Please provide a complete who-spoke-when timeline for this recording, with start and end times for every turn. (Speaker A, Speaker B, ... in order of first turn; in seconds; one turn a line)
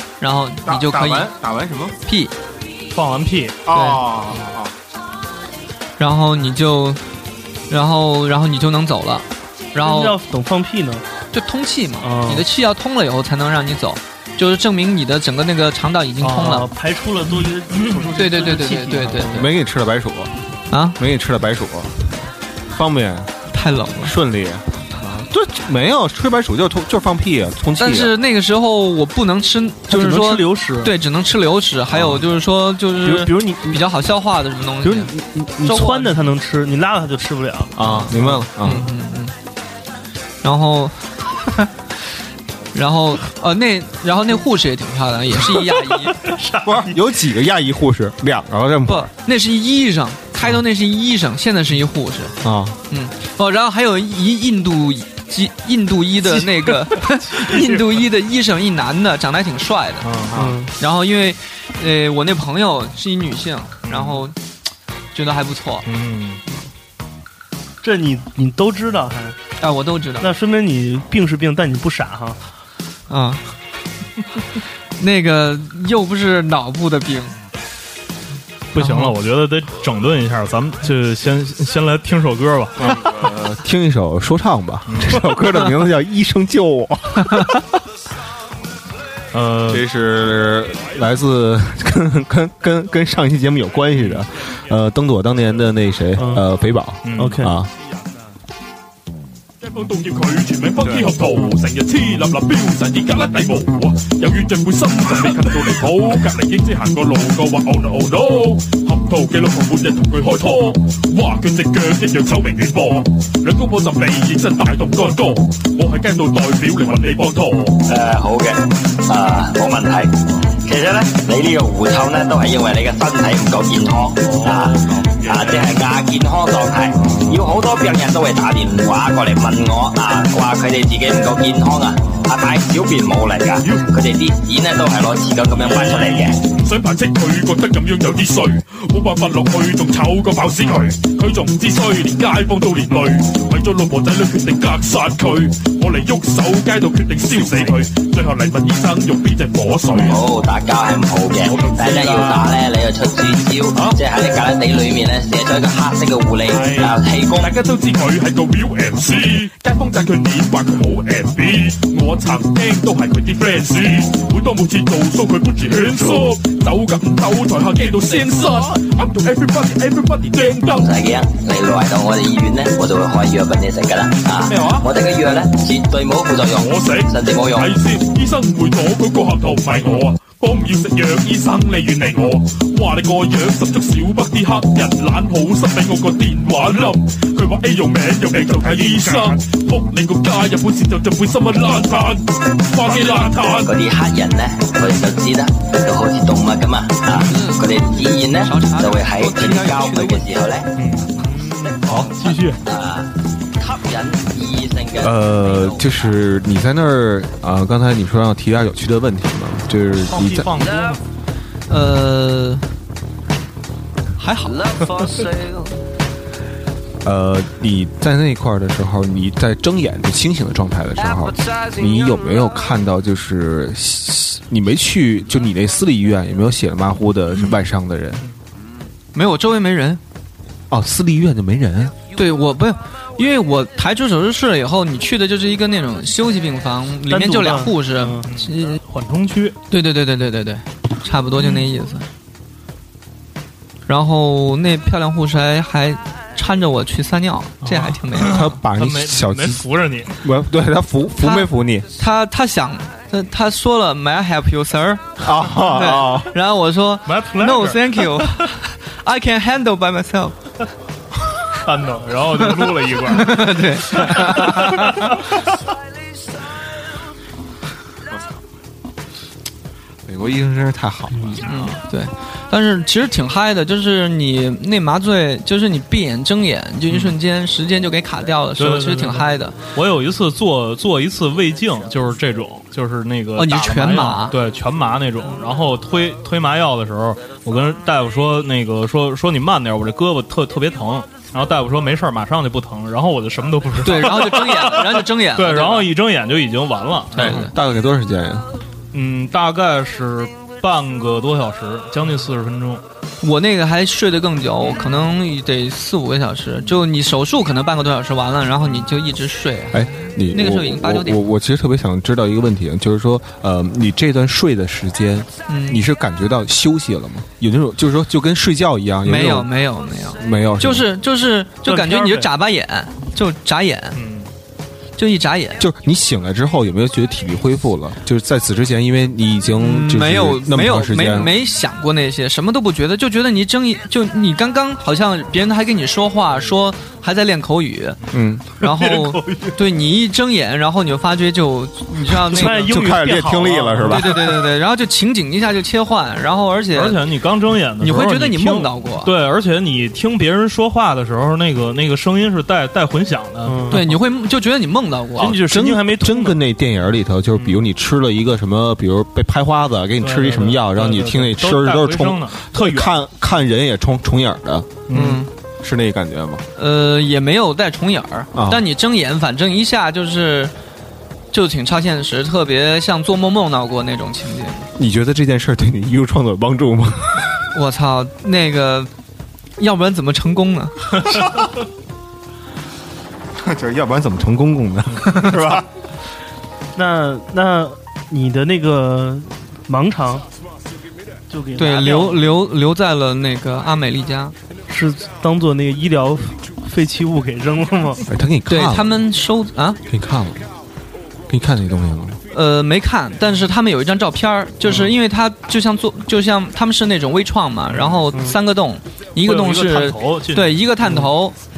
Speaker A: 0.2-1.3
Speaker B: 0.6-1.9
Speaker A: 2.0-2.3
Speaker C: 2.9-3.6
Speaker B: 3.6-4.7
Speaker A: 3.7-4.0
Speaker A: 6.0-7.0
Speaker A: 7.7-10.2
Speaker D: 9.8-11.0
Speaker A: 11.3-16.7
Speaker D: 12.0-12.5
Speaker D: 16.2-19.4
Speaker A: 18.1-19.5
Speaker B: 19.2-20.3
Speaker A: 20.7-21.0
Speaker B: 21.0-22.1
Speaker B: 22.7-23.3
Speaker A: 23.5-24.1
Speaker B: 24.0-28.1
Speaker A: 27.8-35.1
Speaker D: 29.9-30.9
Speaker B: 31.9-32.2
Speaker D: 33.0-33.8
Speaker D: 34.8-38.7
Speaker A: 35.6-36.2
Speaker B: 37.8-38.9
Speaker A: 37.8-39.3
Speaker A: 40.4-41.7
Speaker A: 42.7-46.2
Speaker B: 46.6-49.1
Speaker A: 48.9-52.3
Speaker B: 52.4-52.8
Speaker A: 52.9-60.2
Speaker C: 60.0-60.4
Speaker D: 60.3-60.7
Speaker A: 60.8-64.3
Speaker C: 63.9-64.2
Speaker A: 65.1-65.8
Speaker C: 65.8-66.4
Speaker D: 67.8-69.4
Speaker A: 69.6-70.3
Speaker D: 70.2-72.4
Speaker A: 73.1-73.4
Speaker A: 75.0-77.3
Speaker C: 78.7-83.1
Speaker A: 78.8-79.1
Speaker B: 82.8-87.6
Speaker C: 84.9-85.2
Speaker C: 89.3-89.9
Speaker B: 89.7-97.7
Speaker C: 93.9-94.2
Speaker D: 96.2-96.4
Speaker C: 97.0-97.5
Speaker D: 97.2-97.5
Speaker E: 99.6-117.8
Speaker F: 117.8-136.4
Speaker E: 125.3-125.5
Speaker E: 135.4-150.2
Speaker F: 149.9-157.5
Speaker E: 151.4-152.6
Speaker E: 156.5-170.9
Speaker F: 170.7-177.7
Speaker E: 174.4-174.9
Speaker E: 176.5-193.7
Speaker F: 193.6-200.7
Speaker A: 197.2-200.3
Speaker C: 200.8-202.6
Speaker F: 201.4-206.2
Speaker B: 205.0-210.7
Speaker C: 210.1-211.0
Speaker A: 211.7-212.6
Speaker A: 214.2-214.6
Speaker B: 217.0-228.2
Speaker A: 229.1-230.0
Speaker B: 230.7-231.9
Speaker A: 232.1-238.8
Speaker D: 237.1-238.3
Speaker C: 238.3-239.6
Speaker A: 239.7-242.1
Speaker A: 243.9-248.5
Speaker C: 247.6-250.1
Speaker B: 248.2-251.8
Speaker A: 251.2-260.4
Speaker B: 255.2-256.3
Speaker C: 257.1-258.4
Speaker C: 261.6-265.2
Speaker A: 263.1-265.1
Speaker B: 270.1-271.7
Speaker D: 271.1-271.4
Speaker A: 271.4-279.6
Speaker C: 278.6-297.5
Speaker A: 283.4-284.4
Speaker A: 293.8-295.9
Speaker B: 297.1-298.5
Speaker A: 297.1-297.5
Speaker C: 298.9-302.8
Speaker A: 303.2-311.2
Speaker B: 309.7-319.5
Speaker A: 315.5-315.8
Speaker A: 319.0-324.0
Speaker B: 320.2-320.9
Speaker D: 321.6-322.3
Speaker C: 323.9-324.3
Speaker A: 325.0-325.6
Speaker B: 325.6-331.3
Speaker A: 329.6-338.0
Speaker B: 338.1-338.4
Speaker A: 338.6-342.8
Speaker D: 338.6-339.6
Speaker B: 342.0-344.3
Speaker D: 342.3-344.4
Speaker A: 343.8-347.0
Speaker C: 346.7-353.8
Speaker A: 347.8-349.1
Speaker D: 353.4-353.8
Speaker A: 353.7-355.3
Speaker D: 355.2-356.4
Speaker B: 355.2-364.8
Speaker C: 357.3-357.6
Speaker C: 360.0-363.0
Speaker C: 364.9-365.2
Speaker A: 364.9-365.3
Speaker B: 365.6-366.4
Speaker A: 366.6-370.5
Speaker B: 368.3-368.6
Speaker A: 371.3-374.7
Speaker B: 374.8-377.3
Speaker A: 377.5-378.9
Speaker A: 379.6-380.9
Speaker B: 383.4-385.7
Speaker D: 386.7-390.2
Speaker D: 391.3-392.2
Speaker A: 391.6-394.3
Speaker D: 394.7-398.0
Speaker B: 398.1-399.0
Speaker A: 398.5-399.8
Speaker B: 399.9-400.5
Speaker B: 401.3-402.2
Speaker A: 402.3-411.4
Speaker D: 408.1-408.4
Speaker C: 409.2-410.6